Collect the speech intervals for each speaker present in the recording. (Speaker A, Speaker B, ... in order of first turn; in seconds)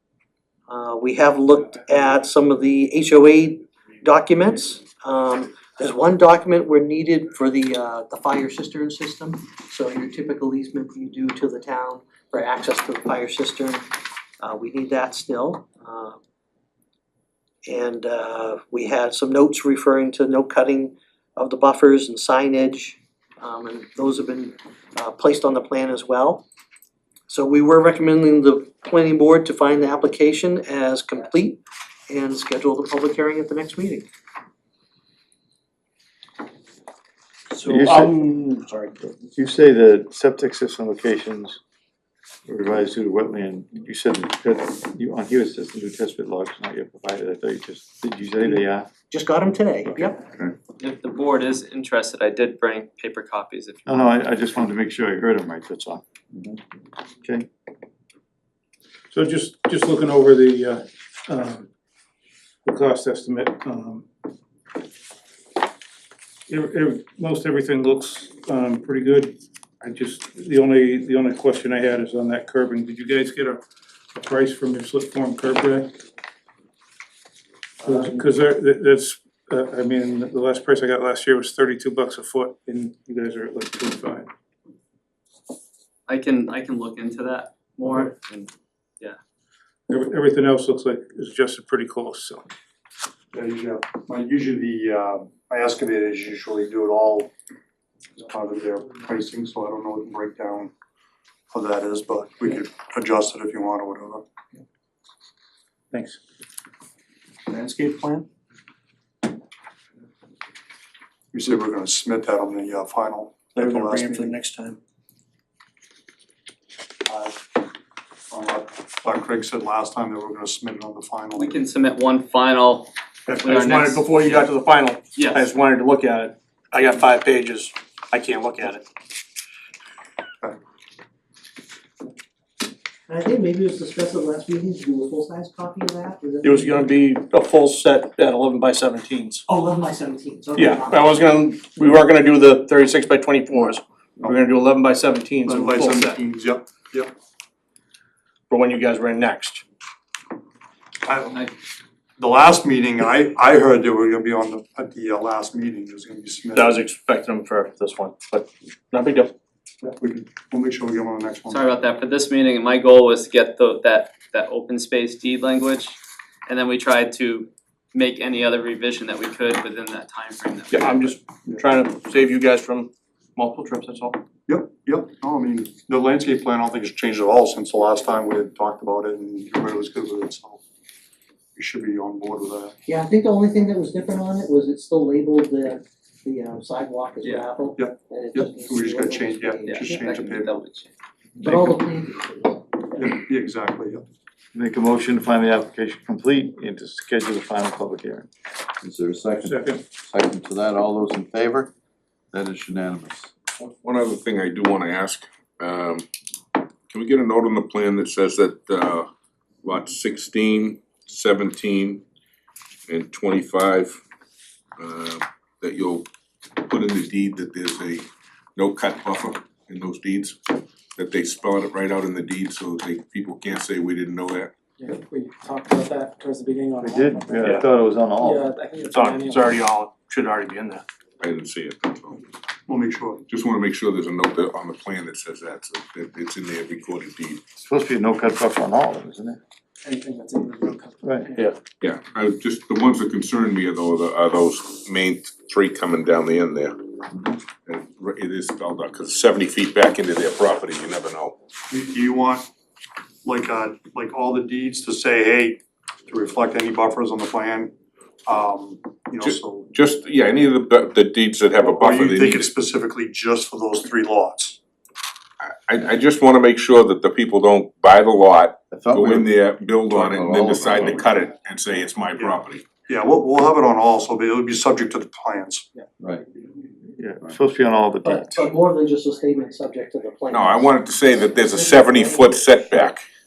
Speaker A: 0.7-16.2, 17.6-26.4, 27.3-34.1, 49.1-50.2, 133.1-137.0, 139.5-141.2, 182.8-190.0, 191.4-193.1, 278.0-280.7, 281.5-282.2
Speaker B: 37.5-38.9, 107.5-108.2, 113.5-114.8, 123.5-128.9, 136.4-139.4, 140.6-146.2, 148.5-149.6, 156.5-159.3, 170.7-174.2, 227.4-227.7, 228.8-230.8
Speaker C: 37.6-38.1, 39.2-41.6, 42.5-48.9, 49.9-50.5, 53.9-56.0, 194.5-198.3, 226.8-228.5, 237.6-239.4, 276.9-278.5
Speaker D: 50.8-54.1, 86.1-89.2, 121.3-124.5, 125.1-125.5, 161.5-171.2, 187.2-187.5, 189.6-190.9
Speaker E: 59.1-61.7, 62.6-64.0, 66.5-73.6, 74.1-75.9, 77.8-84.3, 89.9-92.5, 105.9-106.2, 199.4-199.8
Speaker F: 93.3-97.3, 98.2-100.7, 101.5-104.2, 111.3-114.4, 117.0-117.6, 118.3-121.6, 145.4-147.1, 151.0-151.5, 152.2-156.8, 159.8-161.6, 174.5-180.6, 181.5-182.7, 187.8-190.6, 192.9-194.0, 232.7-233.2, 251.7-252.4, 253.2-257.7, 258.2-259.7, 261.7-264.6, 272.1-275.7
Speaker G: 198.8-201.7, 202.3-203.3, 268.7-269.2, 270.0-271.0, 276.0-276.2
Speaker H: 203.6-206.1, 206.9-209.1, 209.6-212.0, 212.9-214.0, 214.8-224.5, 231.2-232.2, 233.3-237.4, 241.8-246.8, 247.7-251.4, 259.2-262.5, 265.4-272.6, 280.3-283.0
Speaker I: 224.9-227.1, 228.2-229.5, 239.8-241.4